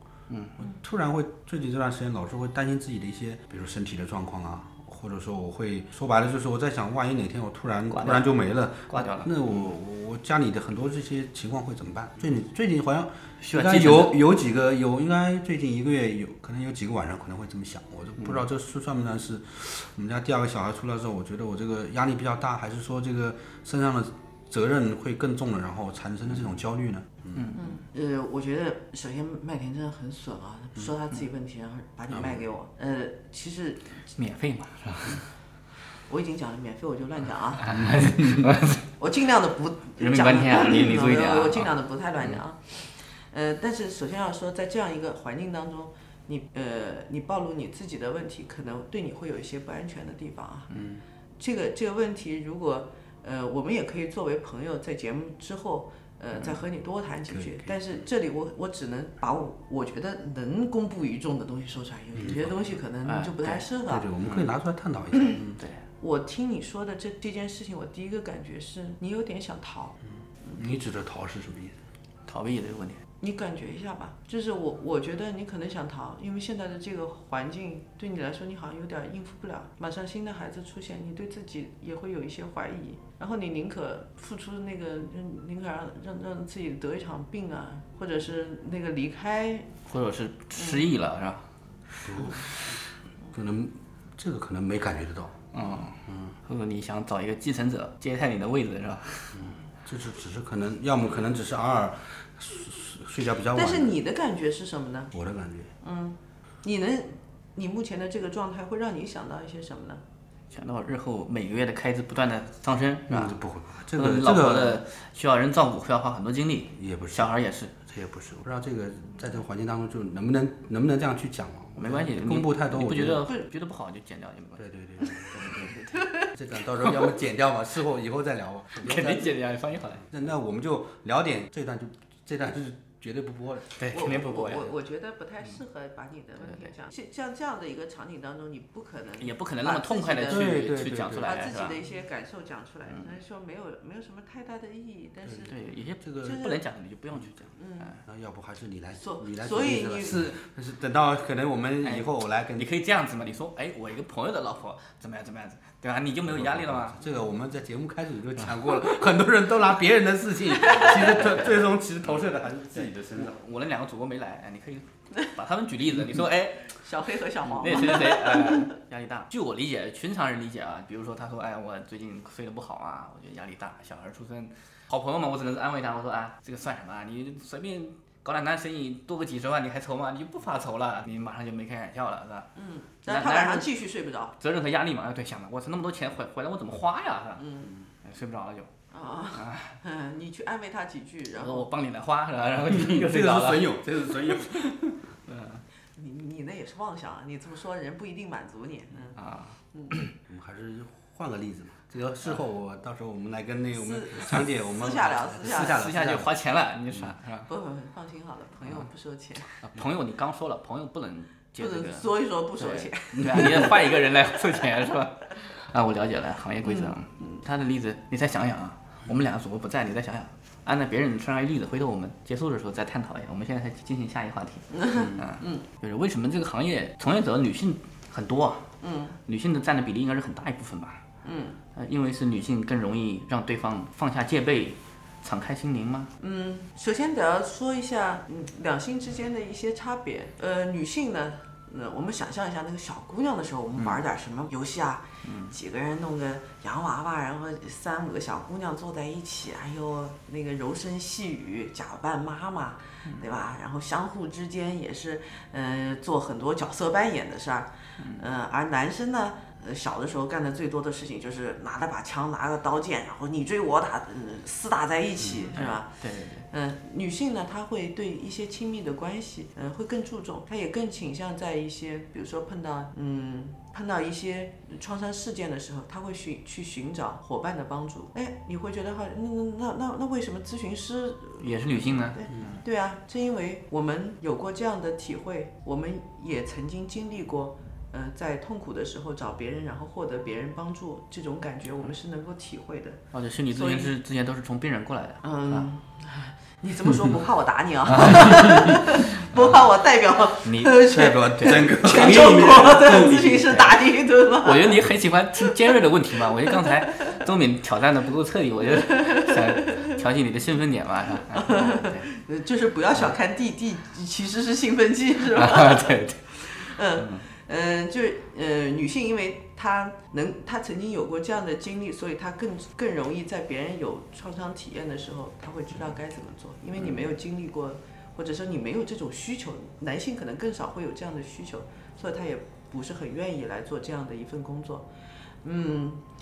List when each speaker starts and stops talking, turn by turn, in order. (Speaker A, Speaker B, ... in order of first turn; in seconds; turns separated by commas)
Speaker A: 0.3-0.6, Speaker B: 0.6-27.5, Speaker A: 7.9-9.7, Speaker A: 13.4-14.2, Speaker A: 27.3-27.6, Speaker C: 27.5-33.9, Speaker B: 32.1-32.4, Speaker A: 34.2-35.2, Speaker C: 36.1-37.7, Speaker A: 37.6-38.8, Speaker B: 37.7-38.5, Speaker C: 39.0-50.7, Speaker A: 40.0-41.7, Speaker B: 50.7-51.0, Speaker C: 51.4-64.0, Speaker B: 57.3-57.8, Speaker B: 62.2-62.5, Speaker A: 63.0-63.6, Speaker B: 63.9-65.6, Speaker A: 64.2-64.5, Speaker A: 65.6-65.8, Speaker C: 66.0-70.7, Speaker B: 70.5-71.8, Speaker A: 72.2-73.0, Speaker C: 73.2-89.7, Speaker A: 89.9-91.5, Speaker B: 92.0-92.5, Speaker A: 92.1-92.7, Speaker B: 93.3-96.3, Speaker A: 95.5-99.4, Speaker B: 99.3-104.0, Speaker C: 103.5-105.1, Speaker B: 105.1-105.7, Speaker C: 105.8-110.0, Speaker A: 110.5-113.4, Speaker B: 113.1-114.8, Speaker A: 113.9-117.7, Speaker B: 116.8-117.3, Speaker B: 117.8-123.3, Speaker A: 121.8-124.6, Speaker B: 124.6-125.8, Speaker A: 125.3-126.1, Speaker B: 126.3-129.3, Speaker A: 128.8-130.0, Speaker B: 130.0-133.7, Speaker A: 133.8-134.7, Speaker C: 133.9-140.5, Speaker A: 136.4-136.7, Speaker A: 139.2-141.8, Speaker B: 140.3-141.4, Speaker C: 141.2-145.5, Speaker A: 145.5-148.0, Speaker B: 146.0-146.4, Speaker C: 146.2-146.6, Speaker B: 147.1-147.4, Speaker C: 147.6-147.9, Speaker B: 148.0-152.7, Speaker C: 149.0-150.3, Speaker A: 152.6-157.0, Speaker B: 156.2-163.3, Speaker A: 160.7-161.5, Speaker A: 162.7-166.8, Speaker C: 166.8-168.6, Speaker A: 167.5-182.5, Speaker C: 182.6-184.3, Speaker A: 183.1-183.7, Speaker A: 184.4-187.4, Speaker C: 187.4-187.7, Speaker A: 188.0-188.7, Speaker C: 188.9-191.7, Speaker A: 189.3-189.8, Speaker A: 191.4-193.7, Speaker B: 192.7-195.0, Speaker A: 195.3-195.6, Speaker C: 195.9-199.2, Speaker A: 199.2-200.1, Speaker C: 199.7-200.0, Speaker B: 200.3-206.3, Speaker C: 203.8-205.7, Speaker A: 205.4-207.5, Speaker C: 207.5-209.5, Speaker A: 209.6-228.7, Speaker C: 211.6-213.8, Speaker B: 213.2-213.5, Speaker C: 216.6-217.3, Speaker C: 224.7-225.6, Speaker B: 224.9-225.2, Speaker C: 228.8-229.2, Speaker A: 229.2-231.0, Speaker C: 231.2-231.6, Speaker A: 231.7-236.1, Speaker C: 236.2-265.9, Speaker A: 245.2-245.5, Speaker A: 265.5-266.4, Speaker C: 266.5-293.0, Speaker A: 281.4-282.6, Speaker B: 282.3-282.6, Speaker A: 293.1-295.7, Speaker C: 293.5-293.9, Speaker C: 295.2-304.8, Speaker A: 297.9-298.6, Speaker A: 299.2-299.5, Speaker A: 300.4-303.8, Speaker B: 300.8-303.4, Speaker A: 304.4-312.1, Speaker C: 309.0-309.3, Speaker C: 311.3-334.9, Speaker A: 315.3-316.2, Speaker A: 317.0-317.2, Speaker C: 335.4-336.0